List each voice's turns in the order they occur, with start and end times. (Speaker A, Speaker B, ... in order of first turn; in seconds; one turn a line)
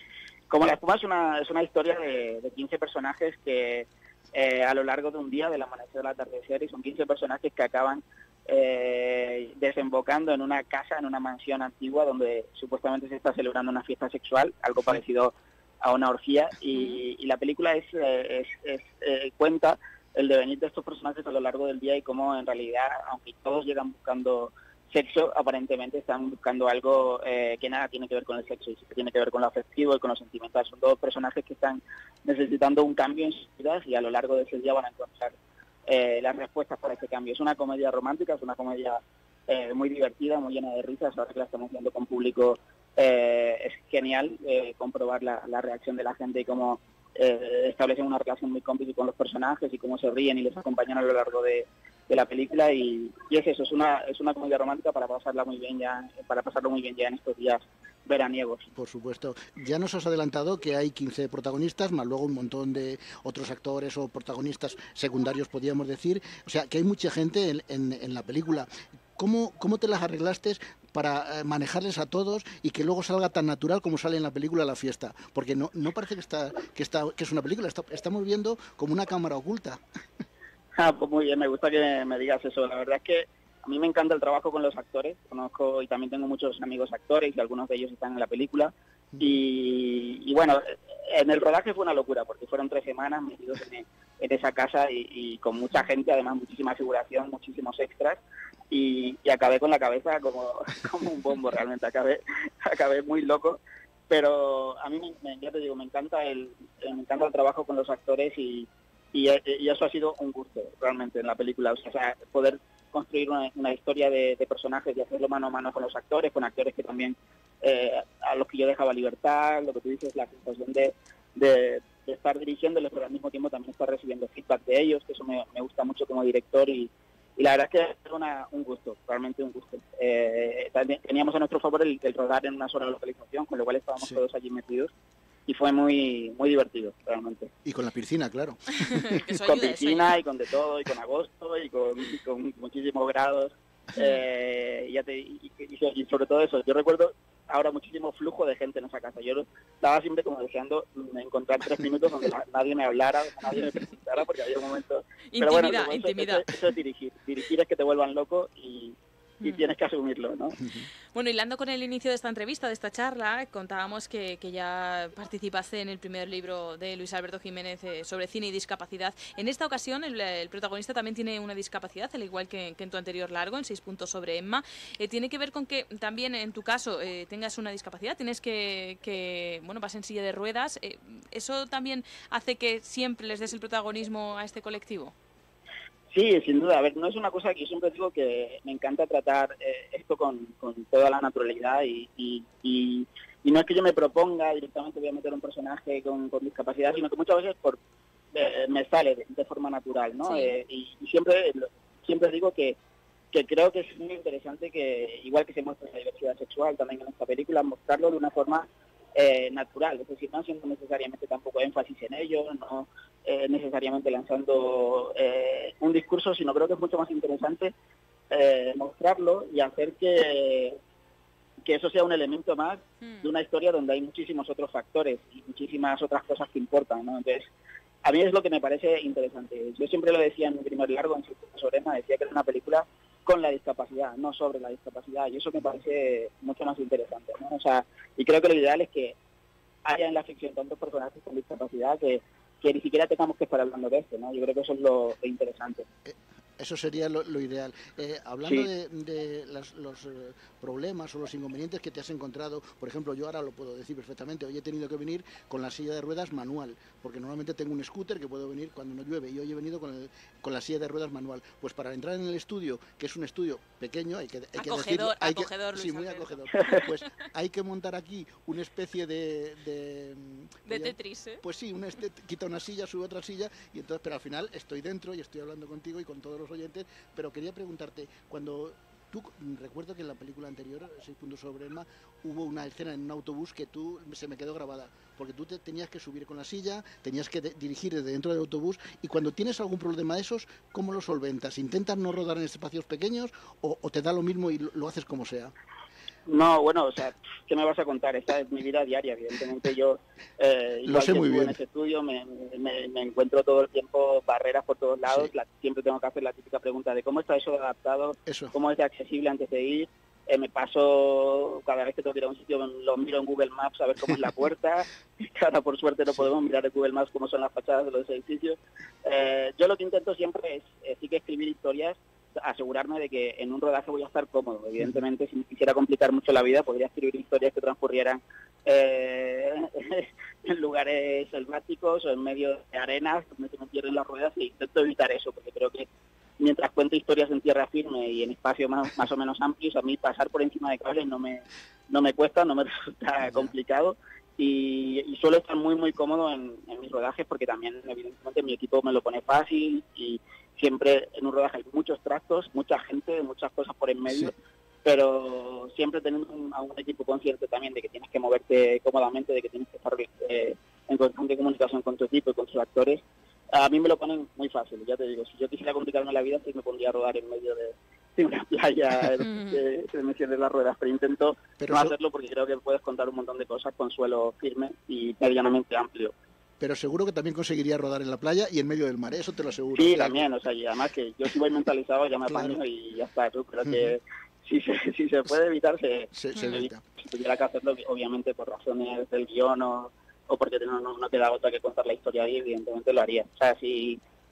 Speaker A: 0.5-35.4
Speaker A: 35.9-58.6
Speaker B: 58.8-79.8
Speaker A: 80.8-98.2
Speaker A: 98.7-134.9
Speaker A: 135.5-137.5
Speaker B: 137.7-139.2
Speaker C: 138.8-140.2
Speaker A: 139.4-160.6
Speaker C: 155.3-156.4
Speaker C: 161.1-185.1
Speaker A: 186.1-197.8
Speaker A: 198.3-202.8
Speaker C: 200.2-200.5
Speaker A: 203.3-217.7
Speaker A: 218.3-220.8
Speaker A: 221.7-227.5
Speaker A: 228.1-239.2
Speaker A: 239.8-245.8
Speaker B: 246.1-295.5
Speaker C: 264.6-266.9
Speaker C: 270.7-271.4
Speaker A: 296.3-335.9
Speaker B: 300.9-301.6
Speaker B: 308.3-308.5
Speaker A: 336.4-354.3
Speaker B: 343.2-343.5
Speaker B: 354.1-354.3
Speaker A: 354.9-376.1
Speaker C: 369.2-369.6
Speaker B: 371.6-371.9
Speaker B: 376.6-380.3
Speaker A: 379.7-394.0
Speaker B: 382.3-382.6
Speaker B: 383.6-383.9
Speaker B: 386.1-386.8